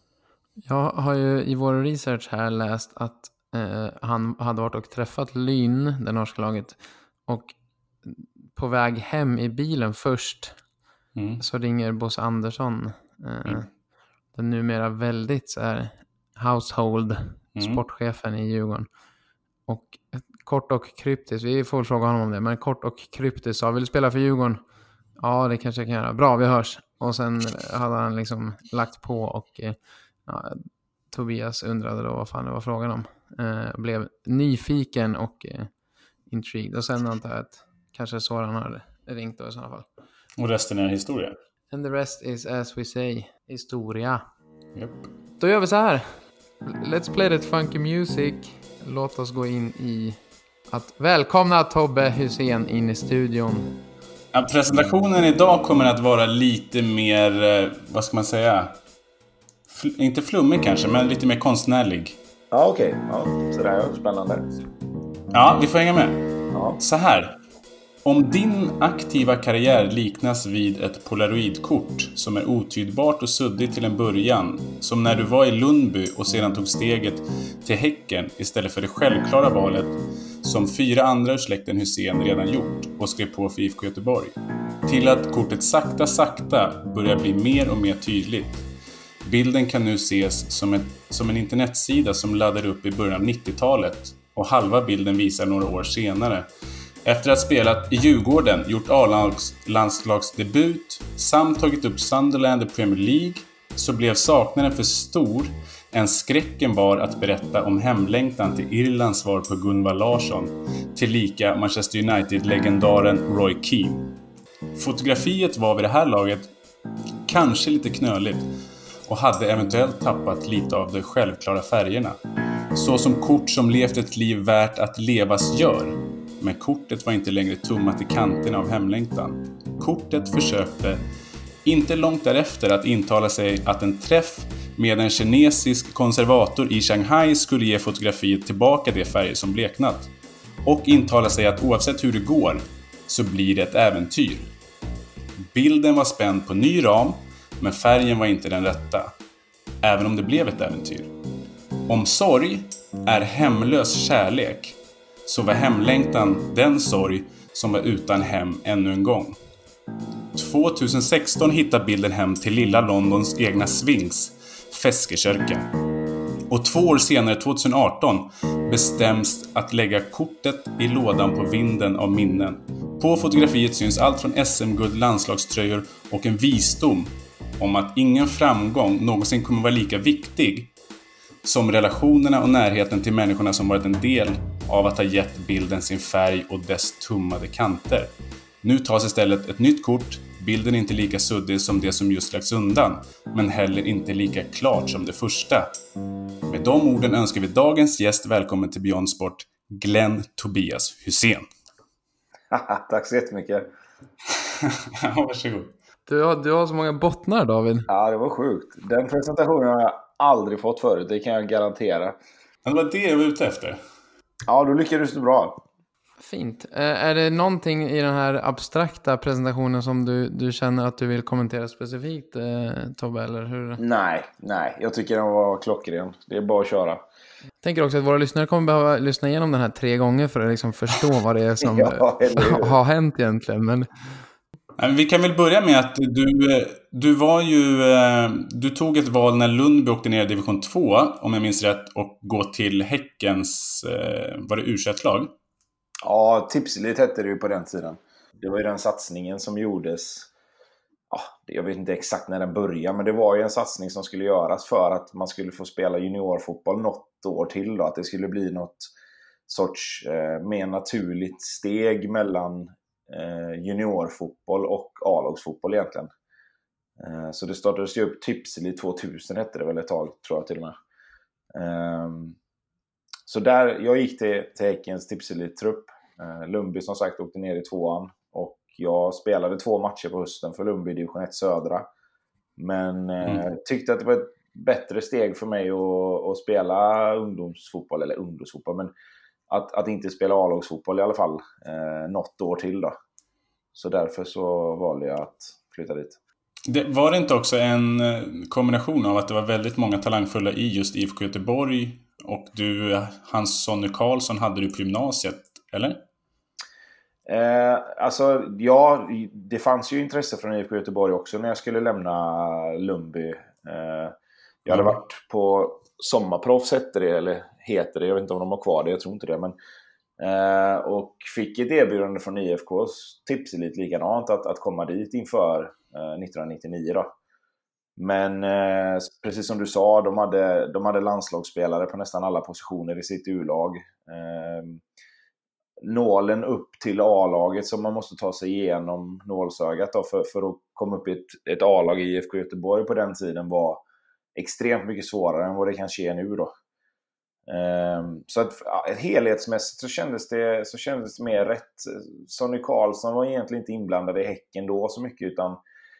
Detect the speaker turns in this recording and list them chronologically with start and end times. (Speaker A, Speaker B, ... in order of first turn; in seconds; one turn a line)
Speaker A: 0.6-10.6
Speaker B: 11.1-11.4
Speaker A: 11.4-13.7
Speaker A: 14.3-18.9
Speaker B: 17.6-17.8
Speaker A: 19.7-24.6
Speaker A: 25.2-35.7
Speaker A: 36.3-39.9
Speaker B: 40.4-41.3
Speaker A: 41.7-44.2
Speaker B: 44.7-45.1
Speaker A: 45.4-46.1
Speaker A: 46.6-50.1
Speaker A: 50.7-53.8
Speaker B: 54.3-58.8
Speaker B: 59.7-62.2
Speaker C: 62.5-64.5
Speaker B: 65.3-66.2
Speaker C: 66.5-66.8
Speaker B: 66.8-67.3
Speaker B: 68.0-84.3
Speaker B: 84.9-88.7
Speaker B: 89.2-96.5
Speaker B: 97.0-114.1
Speaker B: 114.8-116.5
Speaker B: 117.2-118.5
Speaker B: 119.1-122.2
Speaker B: 122.7-131.0
Speaker B: 131.6-140.1
Speaker B: 140.6-144.5
Speaker B: 145.5-149.1
Speaker B: 149.8-151.1
Speaker B: 151.9-159.3
Speaker B: 160.3-165.7
Speaker B: 166.5-180.7
Speaker B: 181.4-195.7
Speaker B: 196.5-201.5
Speaker C: 202.5-203.7
Speaker B: 204.6-205.7
Speaker A: 206.1-207.9
Speaker C: 207.9-212.2
Speaker B: 212.6-213.8
Speaker C: 214.5-215.6
Speaker A: 216.2-223.8
Speaker C: 223.8-227.0
Speaker A: 227.6-233.9
Speaker C: 231.6-232.8
Speaker B: 234.8-245.3
Speaker C: 246.0-250.3
Speaker C: 251.1-258.9
Speaker C: 259.5-266.1
Speaker C: 267.0-270.8
Speaker C: 271.5-272.4
Speaker C: 273.3-281.9
Speaker C: 282.6-288.9
Speaker C: 289.5-292.9
Speaker C: 293.7-296.2
Speaker B: 296.7-306.0
Speaker C: 307.2-319.5
Speaker B: 314.7-315.0
Speaker C: 320.2-327.1
Speaker C: 328.0-334.8
Speaker C: 335.8-343.8
Speaker C: 344.3-346.5
Speaker C: 347.5-355.6